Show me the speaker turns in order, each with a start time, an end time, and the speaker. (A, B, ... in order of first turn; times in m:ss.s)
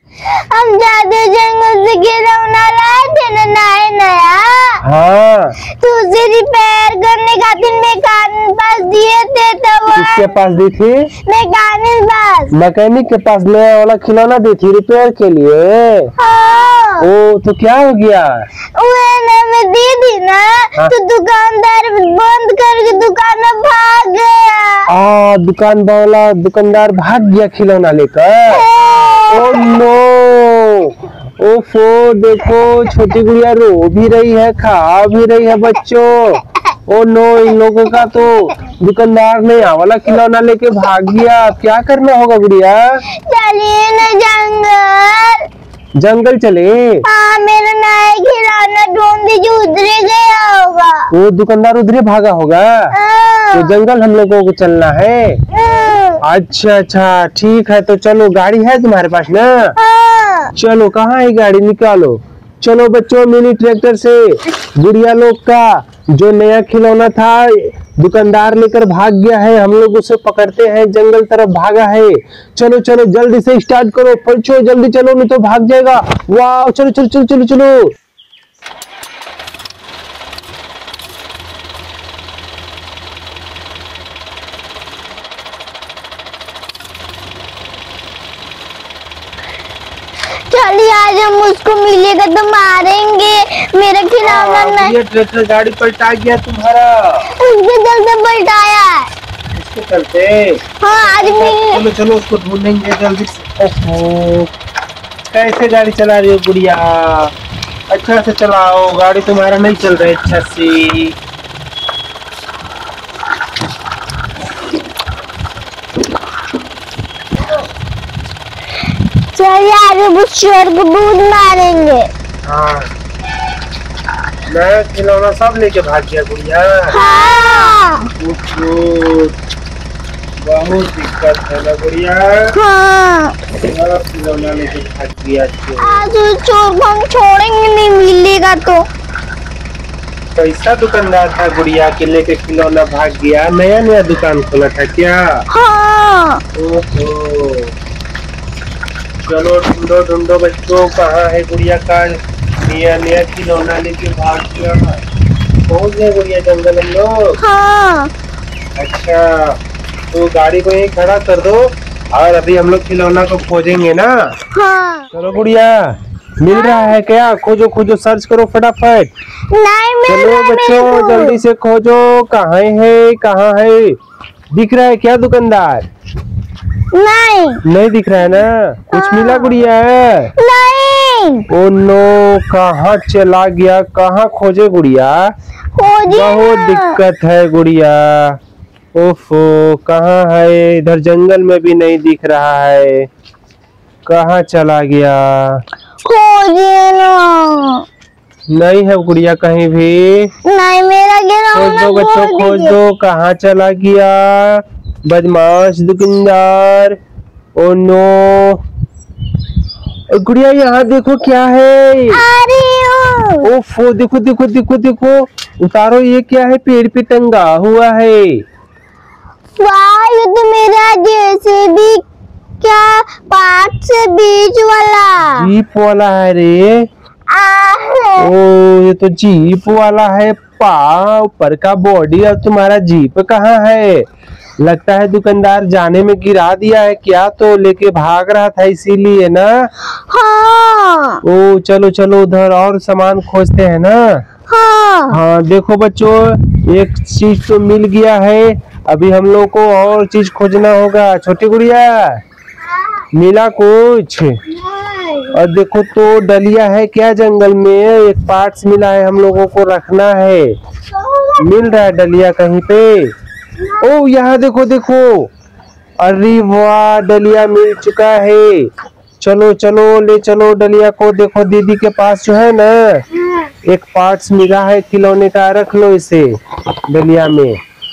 0:00.2-0:04.8 A
0:04.8-0:05.6 B
0:05.6-0:10.3 A
0:09.9-0:11.1 B
0:11.2-0:12.5 A
0:12.5-0:16.1 B
0:16.2-0:17.1 A
0:17.0-0:18.4 B
0:18.7-0:24.9 A
0:24.9-0:28.6 B
0:28.5-0:29.7 A
0:29.3-0:43.0 B
0:43.1-0:45.5 A
0:46.0-0:47.0 B
0:47.0-0:51.1 A
0:51.1-0:52.9 B
0:52.9-0:53.8 A
0:53.5-0:55.4 B
0:55.5-0:56.2 A
0:56.2-0:59.7 B
0:59.8-1:00.5 A
1:00.5-1:17.9 B
1:30.5-1:35.0 A
1:34.2-1:37.3 B
1:37.3-1:39.1 A
1:39.5-1:44.5 B
1:40.8-1:41.8 A
1:45.3-1:47.3 B
1:47.9-1:51.2 B
1:59.2-2:02.1 A
2:02.4-2:02.9 B
2:04.5-2:07.0 B
2:06.9-2:08.1 A
2:08.2-2:09.3 B
2:10.4-2:12.5 B
2:12.5-2:13.4 A
2:13.6-2:16.1 B
2:15.8-2:18.8 A
2:20.3-2:25.4 B
2:25.5-2:26.4 A
2:26.5-2:27.7 B
2:29.2-2:35.0 B
2:35.6-2:37.4 B
2:37.4-2:38.1 A
2:38.8-2:44.4 B
2:44.5-2:45.1 A
2:45.1-2:49.1 B
2:46.5-2:46.9 A
2:49.5-2:51.4 A
2:50.1-2:54.0 B
2:54.5-2:55.9 B
2:56.9-2:57.6 A
2:57.6-3:00.3 B
2:58.9-2:59.5 A
3:00.4-3:01.5 A
3:01.5-3:05.3 B
3:05.7-3:07.0 A
3:06.1-3:08.4 B
3:08.9-3:13.1 B
3:14.0-3:15.6 B
3:16.0-3:17.8 A
3:18.5-3:20.3 B
3:20.4-3:22.8 A
3:21.5-3:27.0 B
3:27.6-3:28.6 B
3:30.1-3:32.2 B
3:32.1-3:33.5 A
3:33.4-3:38.4 B
3:39.6-3:42.0 A
3:42.6-3:45.5 A
3:45.2-3:46.9 B
3:47.3-3:48.3 A
3:48.2-3:54.1 B
3:54.6-3:59.7 B
4:00.1-4:01.2 A
4:01.2-4:04.2 B
4:04.5-4:05.2 A
4:05.1-4:12.2 B
4:13.1-4:14.4 B
4:14.5-4:15.4 A
4:15.3-4:20.6 B
4:20.9-4:21.5 A
4:21.4-4:23.1 B
4:23.8-4:25.3 B
4:26.0-4:33.0 B
4:33.1-4:33.5 A
4:33.6-4:36.4 B
4:36.9-4:37.6 B